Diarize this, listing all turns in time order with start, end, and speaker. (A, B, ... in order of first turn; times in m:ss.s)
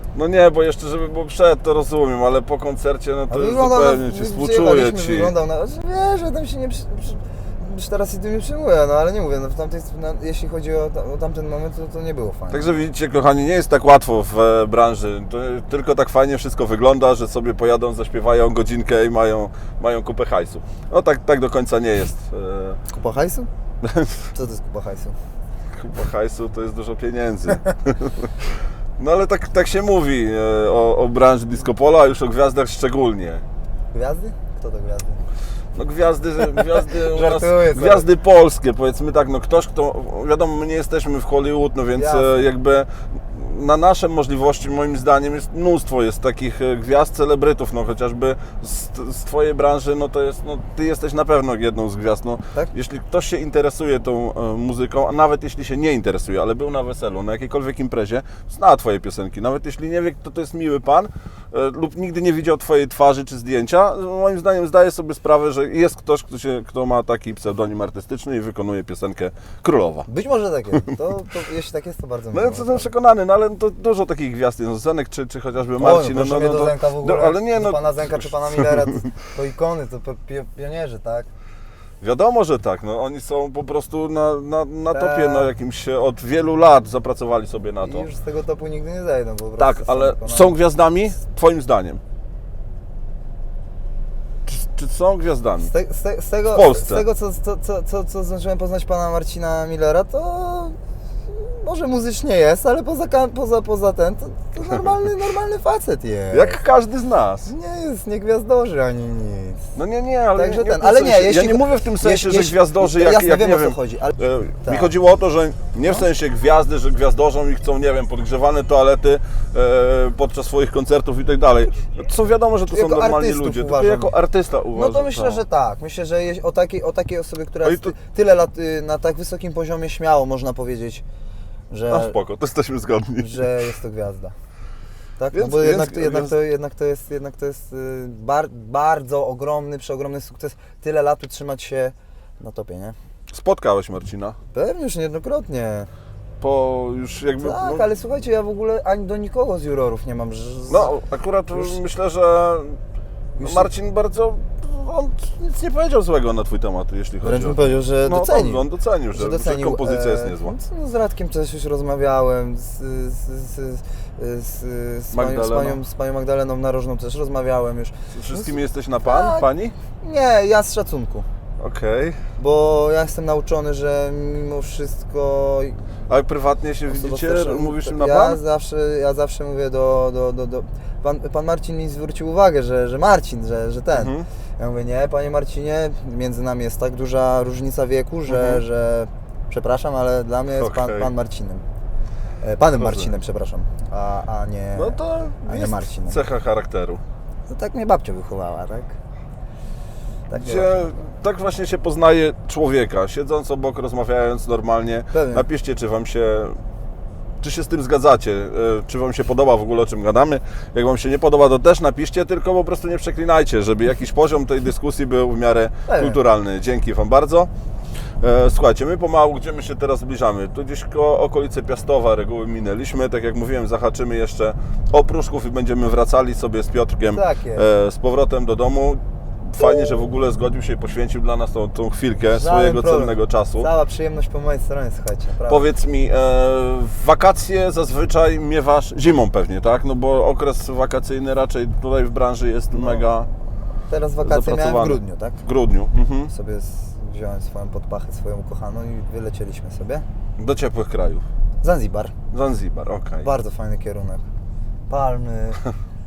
0:00.1-0:05.3 A
0:03.3-0:12.7 B
0:12.5-0:22.8 A
0:22.9-0:23.5 B
0:23.8-0:24.3 A
0:24.3-0:25.2 B
0:25.7-0:33.4 A
0:33.9-0:35.2 B
0:35.7-1:10.1 A
0:36.5-0:38.1 B
0:42.0-0:42.4 B
1:10.1-1:12.9 B
1:12.3-1:19.2 A
1:15.8-1:21.3 B
1:22.0-1:28.1 A
1:24.9-1:25.5 B
1:27.8-1:30.6 B
1:29.6-1:32.0 A
1:34.4-1:35.7 A
1:35.6-1:40.8 B
1:36.5-1:37.0 A
1:41.3-1:46.6 B
1:46.3-1:47.5 A
1:47.4-1:49.6 B
1:49.7-2:05.4 A
1:50.3-1:54.9 B
2:02.7-2:04.2 B
2:04.7-2:11.0 B
2:07.6-2:07.9 A
2:11.7-2:12.2 B
2:11.9-2:13.5 A
2:13.2-2:14.3 B
2:15.2-2:23.0 B
2:15.3-2:16.4 A
2:23.3-2:24.4 A
2:24.5-2:25.9 B
2:26.4-2:27.9 A
2:27.4-2:30.9 B
2:30.7-2:32.8 A
2:33.4-2:33.7 B
2:33.4-2:40.5 A
2:37.2-2:51.3 B
2:45.1-2:45.8 A
2:48.1-2:49.7 A
2:51.6-2:52.2 A
2:52.4-2:55.8 B
2:56.1-2:58.4 A
2:56.9-3:11.6 B
3:03.9-3:04.2 A
3:08.3-3:08.6 A
3:10.6-3:11.1 A
3:12.4-3:16.2 B
3:12.8-3:13.1 A
3:14.7-3:17.0 A
3:17.5-3:19.0 B
3:20.3-3:21.0 B
3:20.3-3:26.6 A
3:25.1-3:25.4 B
3:27.4-3:37.5 A
3:35.9-3:36.2 B
3:38.2-3:53.7 A
3:47.1-3:47.7 B
3:52.3-3:55.7 B
3:55.5-4:03.3 A
4:02.7-4:03.1 B
4:03.8-4:05.4 B
4:04.2-4:06.3 A
4:06.3-4:10.0 B
4:10.4-4:11.2 A
4:11.6-4:12.1 B
4:12.3-4:13.3 A
4:13.2-4:14.2 B
4:14.9-4:15.6 B